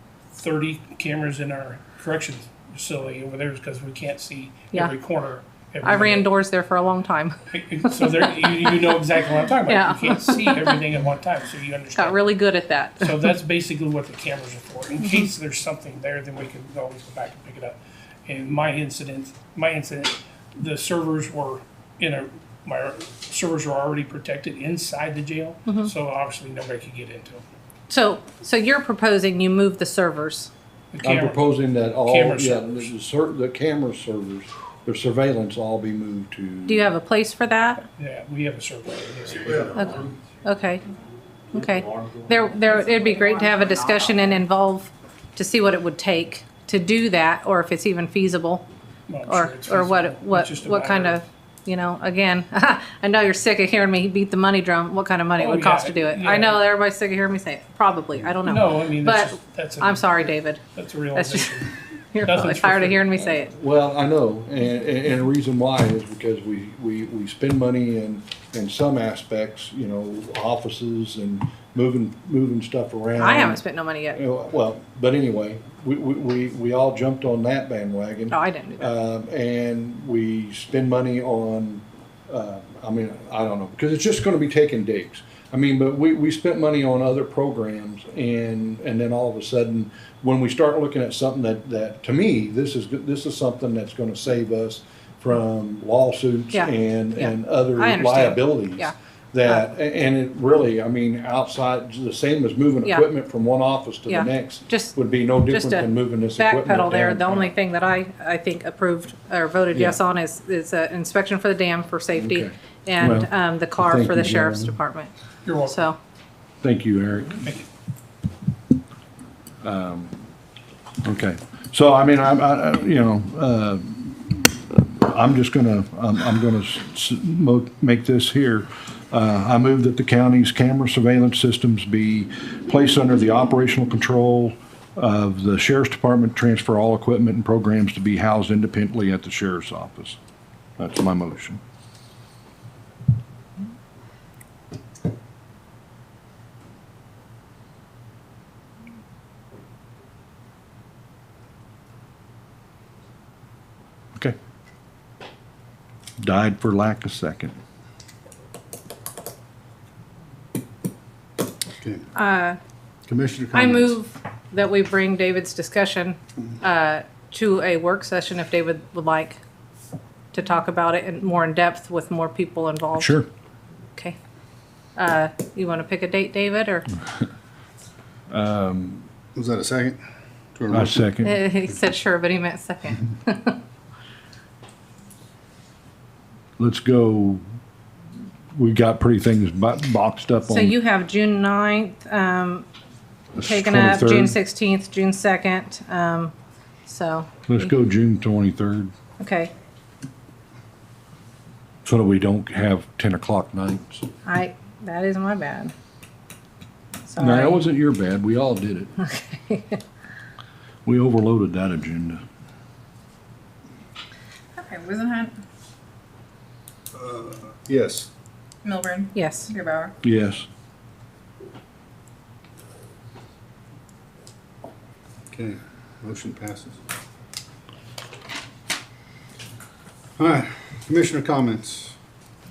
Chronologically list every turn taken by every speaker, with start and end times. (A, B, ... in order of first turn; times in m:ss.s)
0:00.3-0:06.3 A
0:05.8-0:08.7 B
0:07.5-0:12.2 A
0:09.6-0:10.8 B
0:11.9-0:13.2 B
0:13.0-0:27.4 A
0:27.9-0:30.5 B
0:30.9-0:31.5 A
0:31.0-0:36.9 C
0:32.0-0:32.9 A
0:36.7-0:37.8 B
0:38.0-0:39.8 A
0:39.7-0:40.8 B
0:41.5-0:48.6 B
0:49.1-0:51.2 A
0:49.3-1:00.6 B
0:55.4-0:56.6 A
0:58.4-1:03.2 A
1:01.1-1:03.5 B
1:03.5-1:47.5 C
1:13.2-1:14.2 B
1:18.3-1:18.9 B
1:36.5-1:38.9 B
1:44.1-1:55.1 B
1:49.7-1:50.0 C
1:52.1-1:54.7 C
1:55.4-1:55.8 A
1:55.7-1:56.0 B
1:56.6-1:57.5 C
1:59.6-2:00.2 C
2:01.0-2:20.2 C
2:20.8-2:21.6 C
2:36.2-2:37.5 C
2:41.8-2:42.0 D
2:42.1-2:42.6 B
2:43.1-2:44.0 D
2:43.5-2:49.4 B
2:50.3-2:53.2 B
2:52.9-2:53.3 C
2:55.0-2:56.9 B
2:58.3-2:59.1 C
2:59.3-3:00.0 D
3:00.5-3:01.0 D
3:00.7-3:01.4 C
3:01.2-3:03.6 B
3:06.6-3:07.4 C
3:08.5-3:10.8 C
3:10.4-3:12.6 B
3:13.4-3:14.4 C
3:13.4-3:16.3 B
3:16.8-3:17.6 B
3:17.5-3:18.9 C
3:19.2-3:19.5 B
3:21.8-3:24.0 C
3:24.2-3:25.7 B
3:27.1-3:27.6 B
3:27.2-3:28.9 C
3:29.0-3:29.8 B
3:30.8-3:32.2 C
3:34.5-3:35.4 E
3:36.9-3:38.1 D
3:38.6-3:39.9 E
3:39.1-3:39.5 B
3:40.0-3:40.4 C
3:45.3-3:46.8 D
3:50.2-3:51.9 D